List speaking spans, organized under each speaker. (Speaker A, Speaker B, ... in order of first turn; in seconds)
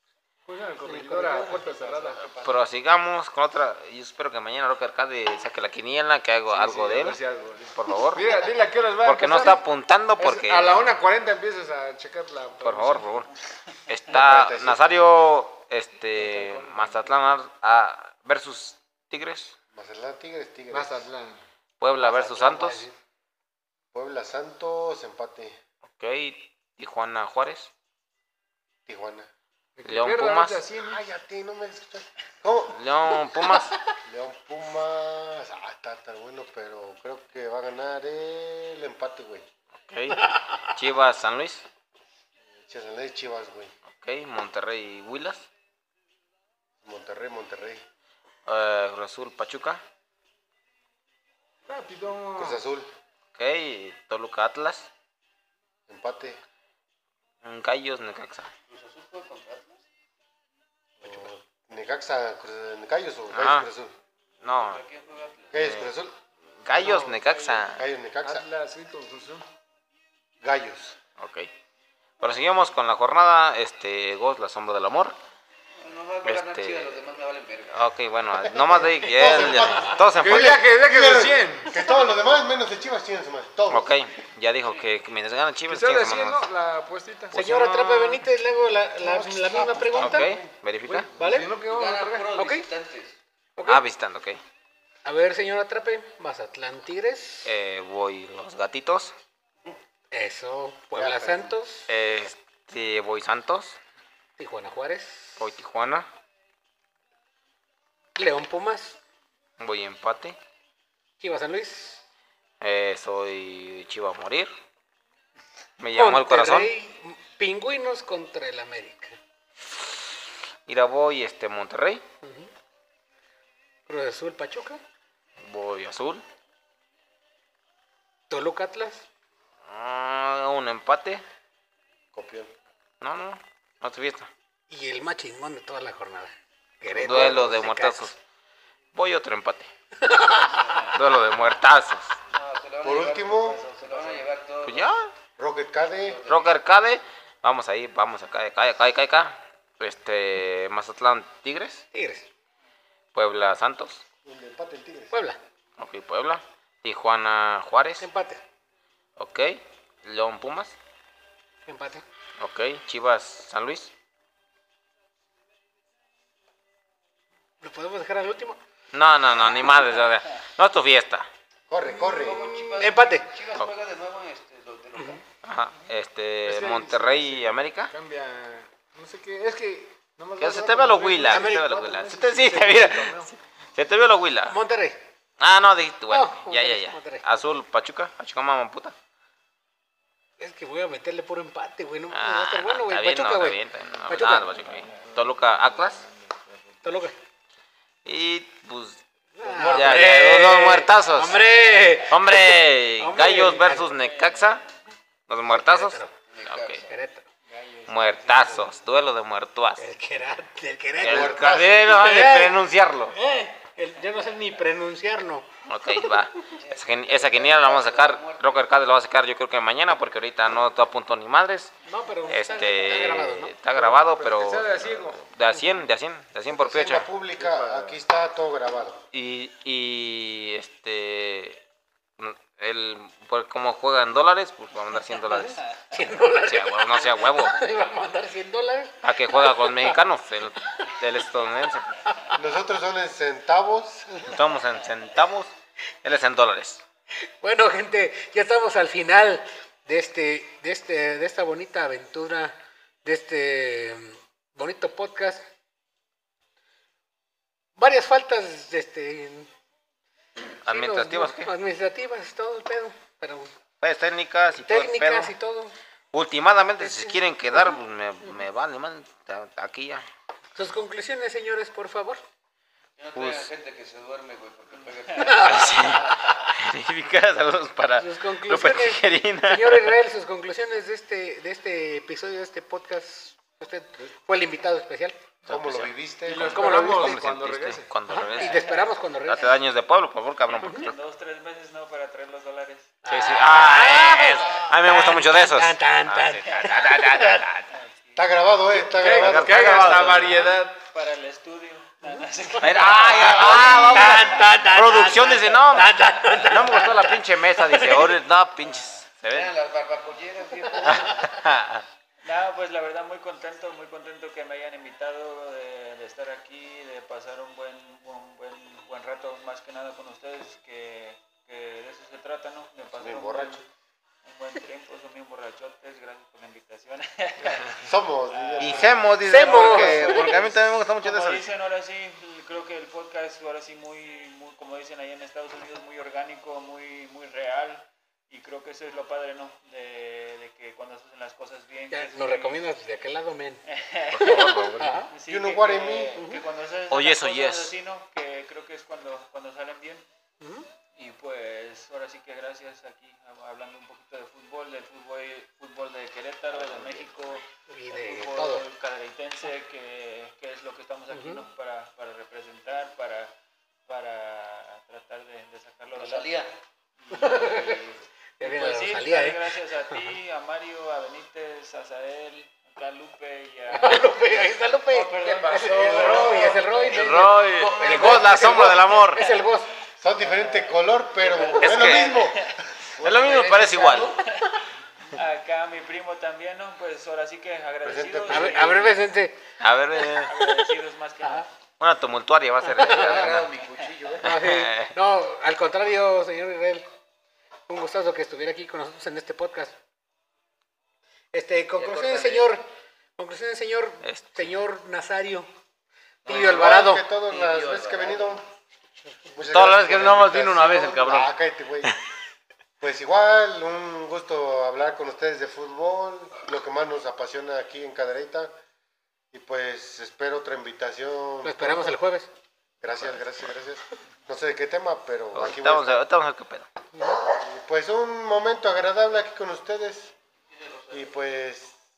Speaker A: 0.5-2.3, 6.5-9.7, 10.2-13.1, 16.2-16.9, 20.7-21.4, 29.8-31.0, 51.7-52.7, 66.7-67.7, 68.2-69.5, 80.2-81.8, 85.7-87.4, 89.0-92.3, 172.1-172.8, 176.4-183.3, 194.2-196.9, 203.3-203.8, 223.7-225.2, 227.4-228.0, 286.2-287.9, 298.7-300.8, 327.4-327.7
Speaker B: 0.9-1.6, 14.1-15.1, 19.7-21.1, 22.0-22.9, 23.9-25.6, 28.9-29.3, 30.8-32.8, 34.0-39.5, 42.6-43.7, 46.8-47.8, 52.4-52.9, 55.9-56.4, 61.0-63.9, 65.5-66.2, 67.7-68.5, 70.4-71.0, 78.5-83.9, 100.9-101.5, 132.1-132.5, 137.1-137.5, 142.8-143.6, 145.4-146.2, 154.2-155.1, 171.7-172.5, 211.0-211.9, 226.5-229.0, 242.3-244.3, 285.5-286.9, 298.2-300.1, 323.0-323.6, 327.8-329.8, 345.3-346.2, 380.0-383.3, 387.8-388.8, 406.3-408.4, 409.3-411.9, 412.8-418.5, 419.3-422.0, 422.8-426.0, 427.3-430.1, 430.9-431.8
Speaker C: 1.1-1.6, 22.6-22.9, 40.1-40.7, 87.3-90.3, 91.2-91.5, 92.3-92.7, 93.6-93.8, 95.0-97.5, 100.1-101.9, 104.4-105.4, 108.2-109.0, 111.2-112.0, 116.0-119.2, 122.2-122.5, 123.9-124.8, 128.3-129.1, 134.7-138.1, 140.0-140.9, 151.9-152.3, 155.1-155.4, 158.0-158.4, 161.7-162.0, 167.6-168.6, 172.7-173.3, 181.3-181.8, 184.5-185.0, 186.1-187.2, 190.4-194.6, 196.8-197.2, 199.4-203.9, 205.5-206.1, 206.9-207.3, 209.8-216.2, 221.8-223.6, 235.5-240.0, 247.4-255.4, 257.8-259.5, 260.6-263.5, 264.6-265.8, 266.8-268.4, 270.6-272.2, 275.1-276.2, 278.0-285.2, 286.5-287.2, 288.1-289.6, 290.6-290.9, 293.0-297.5, 302.1-308.1, 310.7-311.1, 329.2-330.4, 341.9-343.6, 344.2-345.1, 346.2-346.4, 350.4-350.7, 357.7-358.6, 361.1-361.4, 367.1-367.8, 368.4-369.4, 373.7-379.7, 388.3-389.4, 392.6-393.3, 394.2-396.9, 397.7-399.8, 401.3-402.6, 403.2-405.5, 406.3-407.1, 421.4-422.3
Speaker D: 2.4-7.2, 7.7-8.3, 9.0-11.0, 12.6-13.3, 13.9-19.6, 21.8-22.9, 25.9-27.7, 29.9-30.6, 32.7-33.8, 39.8-41.7, 43.9-45.5, 48.5-49.8, 53.4-54.9, 57.4-58.5, 63.3-63.7, 64.4-64.8, 65.5-65.9, 66.6-67.9, 71.2-71.5, 72.2-75.2, 76.2-77.0, 77.7-80.6, 83.7-86.5, 87.3-88.2, 90.0-91.1, 93.7-94.4, 97.5-99.2, 101.9-103.8, 105.4-106.1, 109.6-110.4, 112.6-114.5, 115.8-116.7, 120.7-122.0, 125.4-126.2, 129.7-131.2, 133.0-134.3, 136.9-138.2, 138.9-139.7, 140.9-142.2, 144.6-145.1, 146.3-151.8, 153.1-154.0, 155.8-158.1, 159.2-160.8, 162.4-163.9, 168.9-171.3, 175.4-177.9, 180.4-184.6, 185.4-188.9, 192.1-196.0, 198.1-201.4, 202.1-204.6, 205.3-206.8, 207.9-209.8, 211.0-213.1, 215.7-221.7, 222.3-227.1, 229.1-231.6, 232.2-235.6, 236.4-237.6, 239.0-241.9, 244.2-245.5, 246.0-246.8, 260.6-261.5, 263.8-265.4, 266.1-270.1, 273.1-273.5, 275.5-280.0, 285.4-291.0, 293.1-297.7, 299.1-300.4, 302.6-309.5, 310.9-311.9, 328.6-331.5, 344.1-345.1, 346.9-347.8, 376.9-379.2, 381.6-382.2, 383.0-384.1, 389.6-390.3, 391.8-393.5, 394.2-394.9, 404.0-404.5, 409.5-411.3, 425.3-426.7
Speaker E: 58.7-59.8, 64.6-65.7, 75.8-77.9, 84.7-84.9, 89.7-90.3, 91.5-93.2, 140.6-140.9, 142.3-144.9, 146.0-146.6, 172.0-175.2, 206.2-207.0, 216.6-218.8, 273.0-276.3, 309.3-311.2, 356.5-357.2, 365.9-366.5, 375.1-378.8, 383.0-384.2, 392.8-394.3, 401.8-402.5, 406.3-408.4, 430.6-431.1
Speaker F: 203.9-204.6, 207.5-208.8, 288.4-288.8, 290.5-292.9, 297.7-298.3, 300.3-304.4, 308.6-309.0, 312.2-323.6, 324.2-327.8, 328.3-328.9, 329.6-342.6, 343.6-350.1, 351.0-363.3, 363.9-366.4, 367.0-367.9, 368.4-374.2, 374.9-376.9, 380.2-380.6, 381.2-382.6, 385.1-389.1, 390.1-391.5